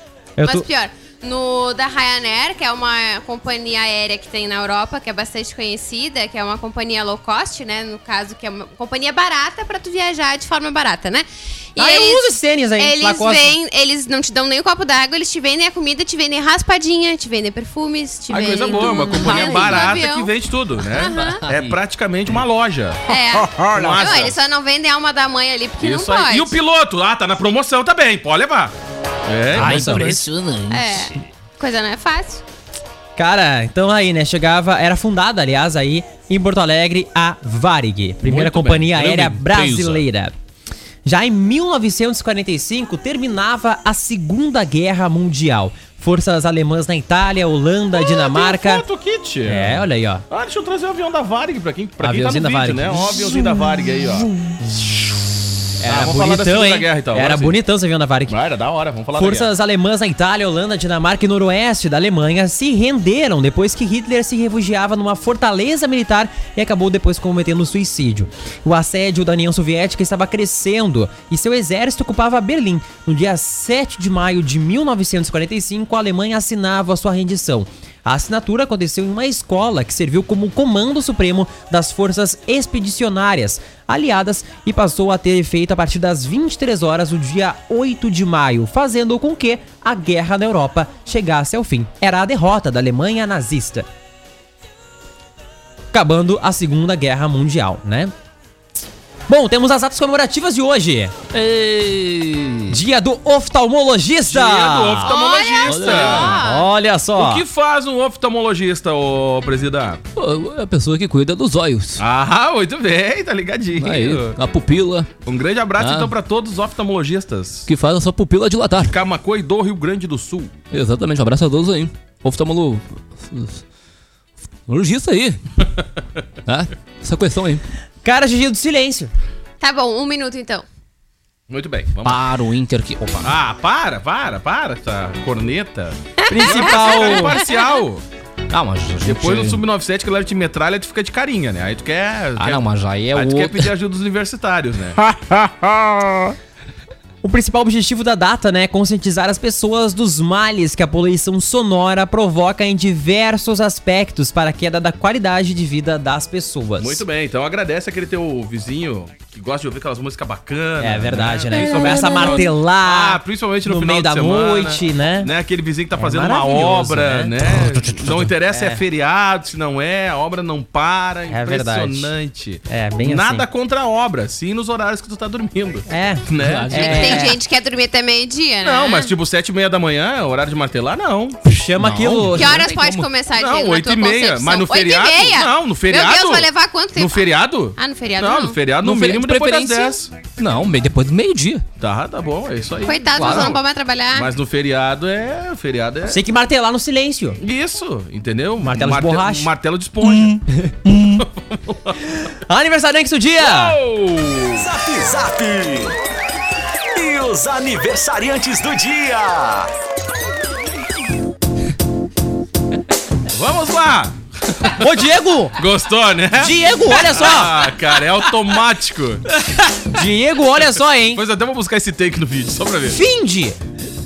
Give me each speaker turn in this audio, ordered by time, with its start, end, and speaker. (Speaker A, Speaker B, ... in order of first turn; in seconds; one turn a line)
Speaker A: 0.4-0.7
Speaker B: 0.4-12.3
Speaker A: 11.8-13.5
Speaker B: 12.8-20.3
Speaker C: 18.3-24.4
Speaker D: 19.0-19.8
Speaker B: 20.9-21.4
Speaker D: 21.1-21.7
Speaker B: 23.1-26.6
Speaker D: 23.5-24.0
Speaker C: 25.8-28.7
Speaker C: 29.2-30.2
Speaker A: 29.5-30.1
Speaker D: 29.5-31.2
Speaker B: 30.7-32.4
Speaker A: 33.2-40.3
Speaker C: 38.2-39.1
Speaker D: 38.9-40.0
Speaker A: 41.0-48.8
Speaker C: 47.9-54.3
Speaker A: 49.5-50.2
Speaker A: 52.0-53.9
Speaker A: 54.4-55.1
Speaker A: 55.8-58.4
Speaker C: 55.8-57.6
Speaker C: 58.3-59.5
Speaker A: 59.1-93.9
Speaker A: 95.9-98.1
Speaker A: 99.3-101.1
Speaker D: 101.3-102.8
Speaker A: 102.7-105.1
Speaker C: 104.3-106.4
Speaker B: 105.0-106.7
Speaker D: 105.6-106.4
Speaker A: 106.4-107.4
Speaker C: 107.2-110.0
Speaker D: 110.2-112.0
Speaker C: 112.0-114.3
Speaker D: 113.8-115.1
Speaker C: 115.2-117.7
Speaker D: 115.8-116.1
Speaker D: 117.7-118.9
Speaker C: 118.8-120.6
Speaker D: 120.7-123.6
Speaker D: 124.7-125.4
Speaker D: 126.5-127.6
Speaker A: 128.0-129.1
Speaker B: 129.6-130.6
Speaker C: 131.5-132.2
Speaker D: 132.0-133.3
Speaker C: 133.2-138.0
Speaker B: 136.2-137.7
Speaker A: 136.3-137.4
Speaker D: 138.5-139.6
Speaker C: 139.0-145.0
Speaker D: 142.4-143.7
Speaker A: 147.2-157.0
Speaker C: 156.8-177.2
Speaker A: 160.8-165.3
Speaker D: 161.7-162.4
Speaker A: 165.9-167.3
Speaker D: 167.4-168.3
Speaker A: 168.5-168.8
Speaker A: 171.3-172.1
Speaker A: 172.7-173.4
Speaker A: 175.9-177.3
Speaker D: 176.4-177.3
Speaker B: 176.7-179.1
Speaker C: 178.6-181.4
Speaker A: 181.4-182.7
Speaker D: 181.8-183.1
Speaker B: 182.3-188.6
Speaker C: 183.3-190.1
Speaker D: 188.8-191.6
Speaker C: 191.8-196.2
Speaker B: 192.8-194.3
Speaker A: 193.2-193.5
Speaker A: 196.1-197.4
Speaker C: 197.4-200.4
Speaker A: 198.6-199.5
Speaker A: 200.5-201.2
Speaker C: 201.1-202.0
Speaker A: 202.2-203.8
Speaker C: 203.4-204.7
Speaker E: 204.5-205.9
Speaker E: 206.9-209.7
Speaker C: 213.3-214.8
Speaker A: 214.8-215.6
Speaker C: 215.6-219.2
Speaker A: 216.4-217.6
Speaker A: 219.9-221.2
Speaker C: 221.0-223.0
Speaker A: 222.9-223.6